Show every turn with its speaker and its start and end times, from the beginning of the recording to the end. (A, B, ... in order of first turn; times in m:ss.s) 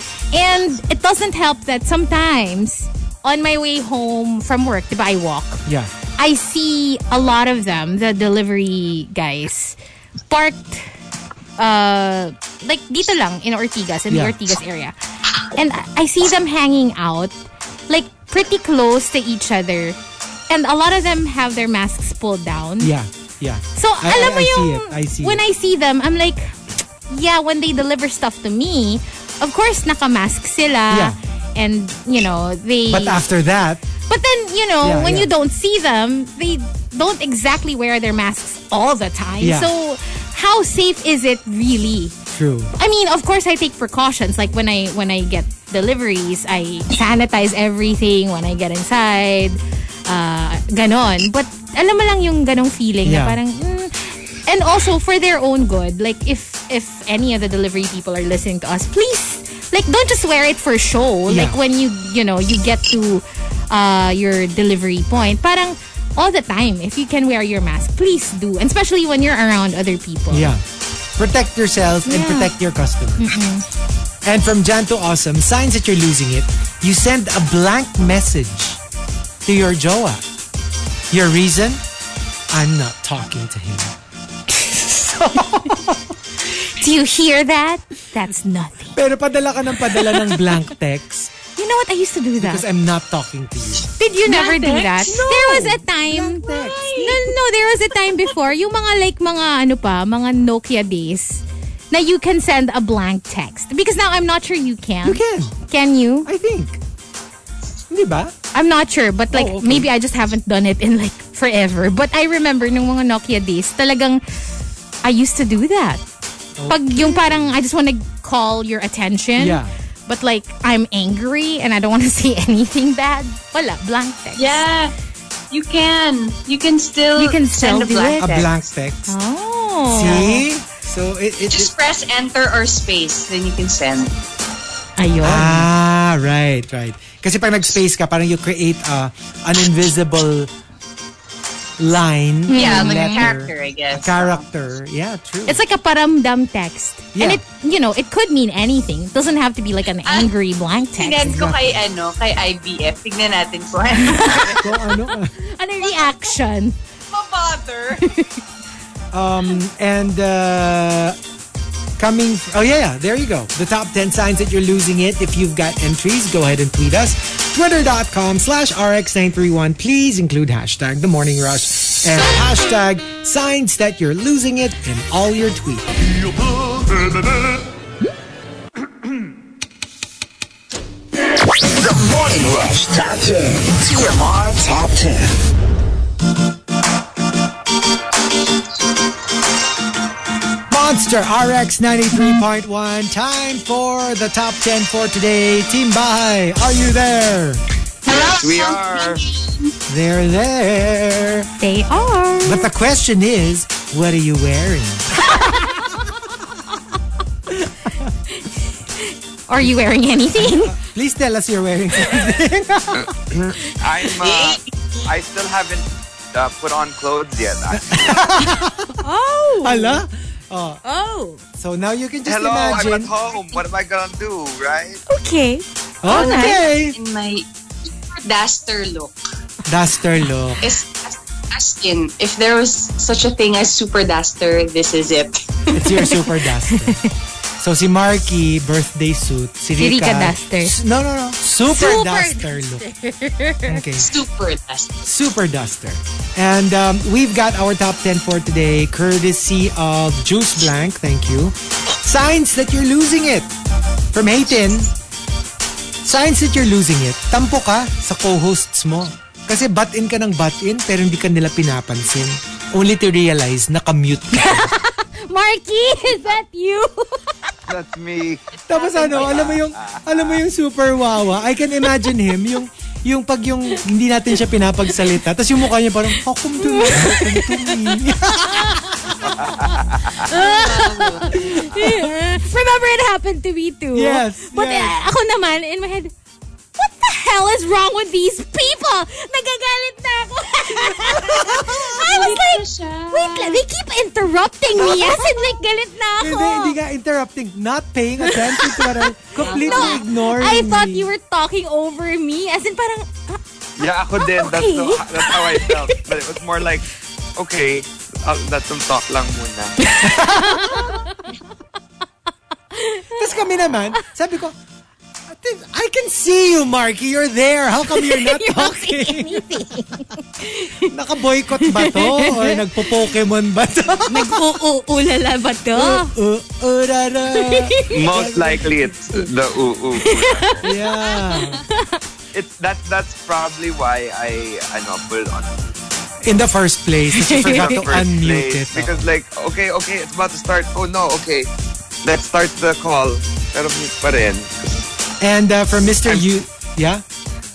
0:00.3-0:05.6 A
0:05.6-0:05.9 B
0:06.2-0:09.8 A
0:10.3-0:10.9 A
0:11.6-0:14.9 A
0:14.1-0:14.4 B
0:15.5-0:17.3 A
0:17.9-0:20.0 A
0:20.5-0:22.9 A
0:22.8-0:25.4 B
0:23.8-0:33.2 A
0:30.9-0:31.2 B
0:32.9-0:33.8 B
0:34.1-0:42.2 A
0:34.8-0:35.3 B
0:39.4-0:39.7 B
0:42.3-0:42.7 B
0:42.8-1:10.5 A
0:53.0-0:53.4 B
1:01.3-1:01.6 B
1:10.3-1:10.6 B
1:11.2-1:13.4 B
1:12.0-1:12.5 A
1:13.2-1:13.6 A
1:14.2-1:18.8 B
1:19.4-1:20.2 B
1:21.1-1:21.8 B
1:22.5-1:23.9 B
1:24.6-1:25.5 A
1:25.0-1:26.1 B
1:26.6-1:29.0 A
1:28.9-1:31.3 B
1:29.9-1:30.3 A
1:31.5-1:32.6 A
1:32.4-1:33.9 B
1:34.0-1:46.3 A
1:34.2-1:35.7 C
1:35.0-1:37.0 B
1:36.4-1:37.3 C
1:45.0-1:45.6 B
1:46.2-1:46.8 B
1:47.9-1:48.3 B
1:48.5-1:54.2 A
1:49.3-1:49.9 B
1:55.0-1:56.0 A
1:56.6-1:57.5 B
1:56.7-2:04.6 A
1:59.4-1:59.7 B
2:04.4-2:04.9 C
2:05.5-2:08.5 C
2:07.2-2:08.4 A
2:08.2-2:09.1 B
2:09.1-2:10.4 A
2:09.9-2:11.7 B
2:11.5-2:14.1 C
2:15.0-2:15.7 A
2:15.2-2:20.5 B
2:21.8-2:25.6 B
2:22.5-2:23.3 A
2:22.5-2:24.4 C
2:25.4-2:31.4 A
2:27.1-2:27.4 B
2:30.9-2:34.6 C
2:31.2-2:31.8 B
2:34.0-2:34.8 A
2:34.5-2:35.3 B
2:35.4-2:36.8 A
2:35.8-2:36.4 C
2:37.1-2:38.2 C
2:38.0-2:38.3 A
2:39.1-2:41.2 B
2:42.0-2:55.9 B
2:56.2-2:57.4 D
3:01.3-3:05.4 D
3:10.7-3:17.6 B
3:18.1-3:19.7 C
3:18.1-3:19.2 E
3:19.9-3:21.5 B
3:21.6-3:22.7 A
3:22.4-3:25.2 B
3:25.2-3:25.9 A
3:27.5-3:28.1 B
3:28.3-3:30.8 A
3:30.4-3:33.1 B
3:33.0-3:38.3 E
3:34.2-3:35.1 C
3:37.7-3:39.0 B
3:39.0-3:40.0 A
3:39.6-3:40.8 B
3:40.8-3:41.4 A
3:41.6-3:43.1 B
3:42.2-3:45.0 E
3:45.1-3:46.6 A
3:46.0-3:47.0 B
3:46.1-3:47.5 C
3:48.0-3:49.1 C
3:49.6-3:50.7 B
3:50.6-3:55.8 C
3:55.7-3:57.0 B
3:56.0-3:57.1 A
3:57.6-4:02.8 B
3:59.8-4:00.8 A
4:01.6-4:03.8 A
4:03.6-4:04.2 B
4:04.0-4:04.9 C
4:05.0-4:13.5 B
4:14.1-4:14.9 B
4:16.0-4:24.7 B
4:24.3-4:27.3 A
4:27.7-4:30.4 E
4:28.7-4:39.6 B
4:36.6-4:38.8 A
4:39.4-4:46.1 A
4:39.5-4:40.1 E
4:40.2-4:41.7 C
4:41.4-4:42.1 B
4:43.9-4:45.0 B
4:46.8-4:56.8 A
4:50.9-4:51.8 B
4:51.5-4:53.6 C
4:56.2-5:01.1 B
4:58.2-5:03.4 A
4:59.4-5:00.0 C
5:03.8-5:06.8 E
5:04.2-5:06.0 A
5:07.4-5:09.8 E
5:09.8-5:11.3 A
5:10.0-5:10.9 B
5:12.7-5:13.2 A
5:13.1-5:14.6 B
5:15.3-5:19.6 B
5:17.9-5:20.9 A
5:20.8-5:24.4 B
5:21.5-5:22.9 A
5:24.1-5:26.1 A
5:25.7-5:28.9 B
5:27.3-5:27.9 A
5:27.9-5:30.7 E
5:30.0-5:32.0 A
5:30.6-5:31.6 B
5:32.3-5:35.7 E
5:36.2-5:39.1 B
5:37.1-5:37.8 A
5:37.5-5:41.5 E
5:42.0-5:44.9 E
5:45.2-5:47.0 B